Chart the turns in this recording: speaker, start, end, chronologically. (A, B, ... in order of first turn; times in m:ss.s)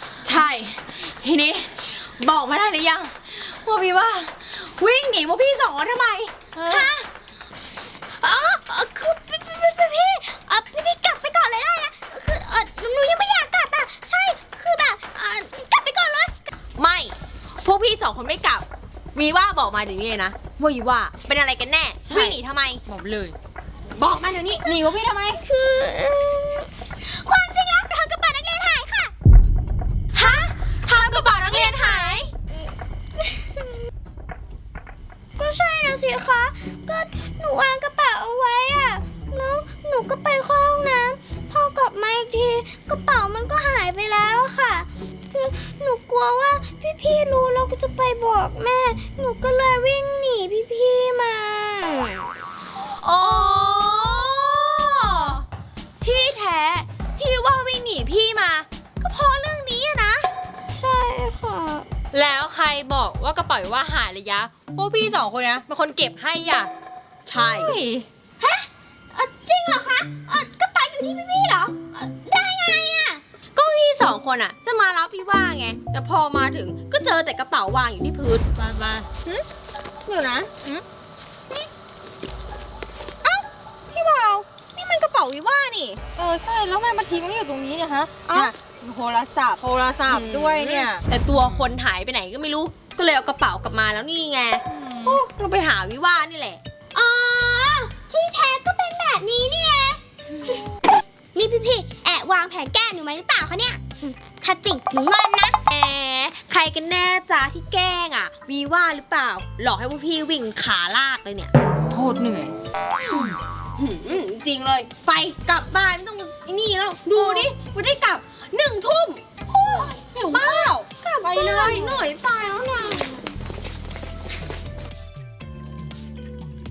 0:00.2-0:07.0 A
0:06.5-0:06.9 B
0:08.1-0:16.5 C
0:16.8-0:22.8 A
0:22.0-0:23.4 B
0:23.9-0:25.4 A
0:25.2-0:29.1 C
0:30.1-0:32.3 A
0:30.2-0:32.2 C
0:33.2-0:33.6 C
0:35.4-0:52.3 C
0:53.0-0:55.0 B
0:53.0-0:55.4 A
0:56.0-1:00.3 A
1:00.7-1:01.9 C
1:02.1-1:06.7 B
1:07.2-1:07.8 A
1:07.5-1:08.0 B
1:08.4-1:13.2 C
1:13.5-1:18.4 A
1:18.6-1:19.1 B
1:20.0-1:20.5 A
1:23.2-1:26.0 A
1:26.2-1:31.0 B
1:28.3-1:28.5 A
1:30.0-1:36.6 A
1:34.7-1:35.2 B
1:36.9-1:40.6 C
1:41.3-1:45.6 C
1:45.7-1:51.5 A
1:51.8-1:52.5 B
1:53.0-2:03.2 A
2:00.1-2:00.7 B
2:00.4-2:00.7 C
2:01.2-2:02.0 B